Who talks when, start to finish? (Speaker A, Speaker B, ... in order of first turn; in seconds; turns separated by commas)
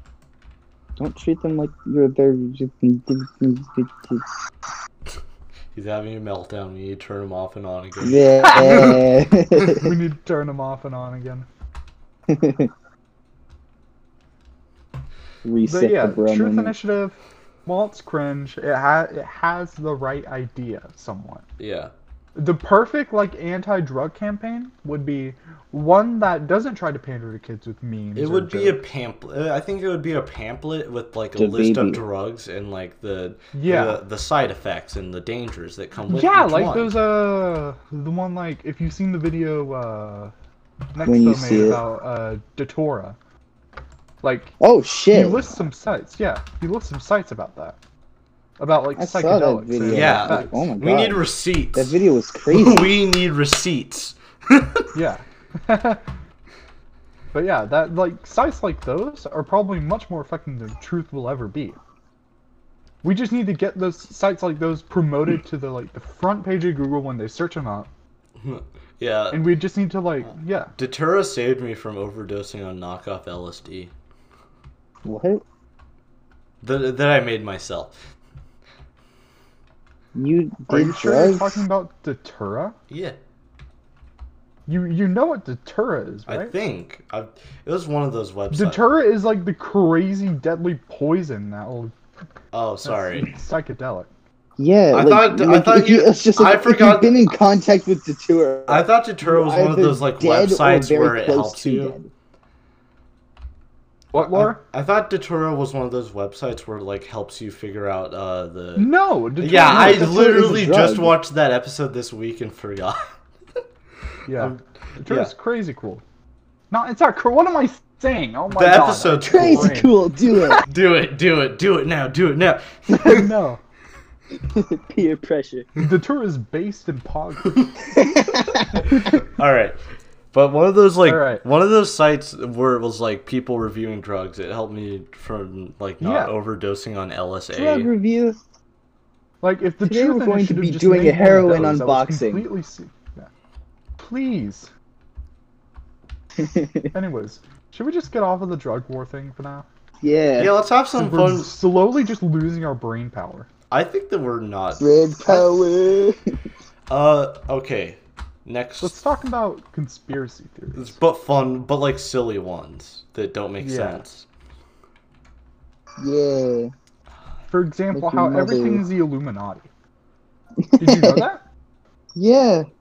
Speaker A: 1.0-4.2, Speaker B: 5.7-9.0, Speaker A: 8.0-9.9, Speaker C: 8.4-9.0, Speaker C: 9.7-11.5, Speaker A: 12.3-12.7, Speaker A: 15.4-16.8, Speaker C: 15.6-21.4, Speaker B: 21.6-21.9, Speaker C: 22.3-28.8, Speaker B: 28.1-37.0, Speaker A: 31.4-32.0, Speaker C: 33.5-34.0, Speaker C: 36.1-40.3, Speaker C: 40.9-43.2, Speaker A: 41.0-41.8, Speaker C: 44.2-44.5, Speaker A: 44.6-45.6, Speaker C: 45.1-47.8, Speaker C: 48.6-50.6, Speaker A: 48.9-52.9, Speaker B: 49.8-54.9, Speaker C: 54.9-56.1, Speaker C: 57.3-61.8, Speaker C: 63.0-67.9, Speaker B: 68.4-69.5, Speaker C: 69.3-70.7, Speaker B: 70.8-73.9, Speaker A: 75.0-75.4, Speaker B: 76.6-78.0, Speaker A: 80.1-81.6, Speaker C: 80.7-82.8, Speaker B: 82.9-83.2, Speaker C: 84.7-86.5, Speaker B: 86.3-88.8, Speaker C: 88.5-91.9, Speaker B: 92.5-93.3, Speaker C: 92.8-94.1, Speaker A: 94.6-102.1, Speaker B: 94.9-97.3, Speaker B: 98.7-101.9, Speaker C: 104.1-104.6, Speaker B: 104.2-108.9, Speaker C: 108.8-110.9, Speaker B: 109.4-113.1, Speaker A: 109.7-111.1, Speaker C: 114.3-116.0, Speaker B: 114.3-115.3, Speaker C: 116.7-120.0, Speaker B: 118.5-119.9, Speaker A: 119.2-120.6, Speaker B: 120.6-123.3, Speaker C: 122.9-123.6, Speaker A: 124.3-125.7, Speaker C: 125.8-127.8, Speaker A: 127.9-128.8, Speaker B: 128.5-129.8, Speaker B: 130.3-137.9, Speaker C: 131.0-131.4, Speaker C: 136.0-136.3, Speaker A: 137.5-138.4, Speaker C: 139.4-143.3, Speaker A: 139.8-142.5, Speaker C: 144.0-144.7, Speaker A: 146.4-146.9, Speaker C: 146.9-149.7, Speaker A: 150.0-150.5, Speaker B: 150.4-151.5, Speaker C: 151.0-153.5, Speaker B: 153.7-155.4, Speaker A: 154.8-156.2, Speaker B: 156.9-158.9, Speaker C: 158.8-161.0, Speaker B: 160.7-164.3, Speaker C: 163.6-164.0, Speaker A: 166.0-166.7, Speaker C: 167.5-169.7, Speaker A: 167.9-168.8, Speaker A: 170.6-171.3, Speaker C: 170.8-171.4, Speaker A: 172.2-172.7